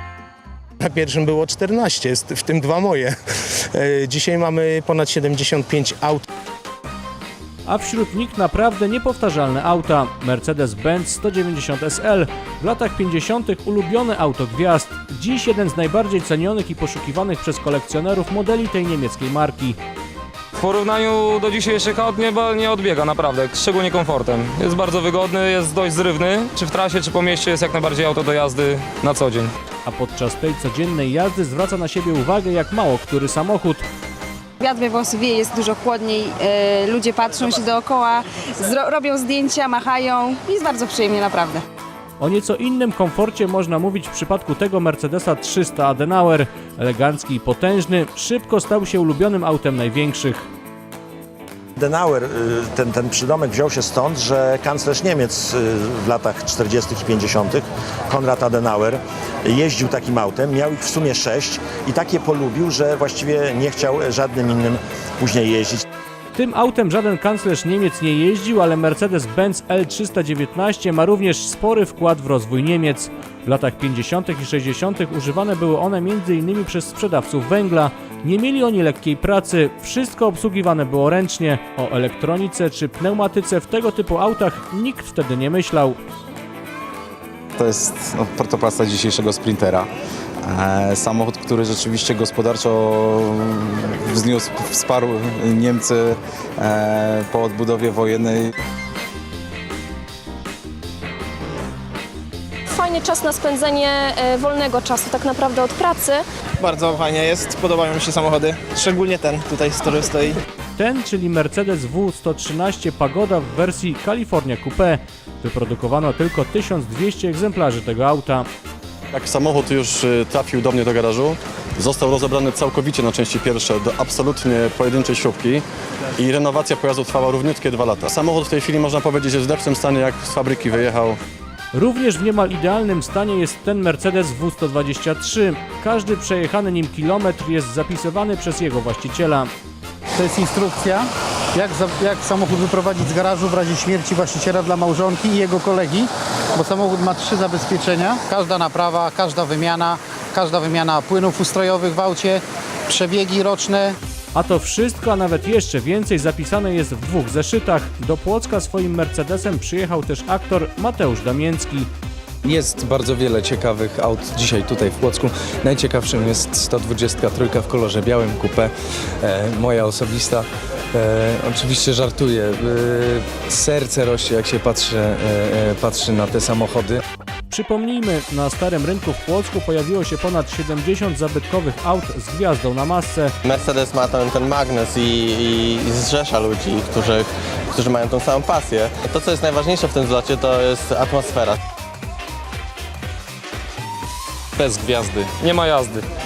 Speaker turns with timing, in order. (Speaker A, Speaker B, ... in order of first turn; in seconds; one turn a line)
Speaker A: 0.8-3.1
Speaker A: 3.7-6.2
Speaker B: 7.7-19.8
Speaker C: 20.6-29.5
Speaker B: 29.8-33.8
Speaker D: 34.6-41.6
Speaker B: 42.2-50.4
Speaker E: 51.8-65.8
Speaker B: 66.3-86.0
Speaker F: 87.6-89.9
Speaker F: 90.5-98.5
Speaker G: 102.7-106.2
Speaker H: 106.6-110.3
Speaker B: 110.8-118.5
Speaker I: 119.1-125.7
Speaker I: 126.2-131.2
Speaker B: 131.7-139.5
Speaker J: 140.2-154.0
Speaker B: 154.3-161.9
Speaker K: 162.4-177.0
Speaker B: 177.5-183.3
Speaker L: 183.4-191.6
Speaker C: 195.4-196.0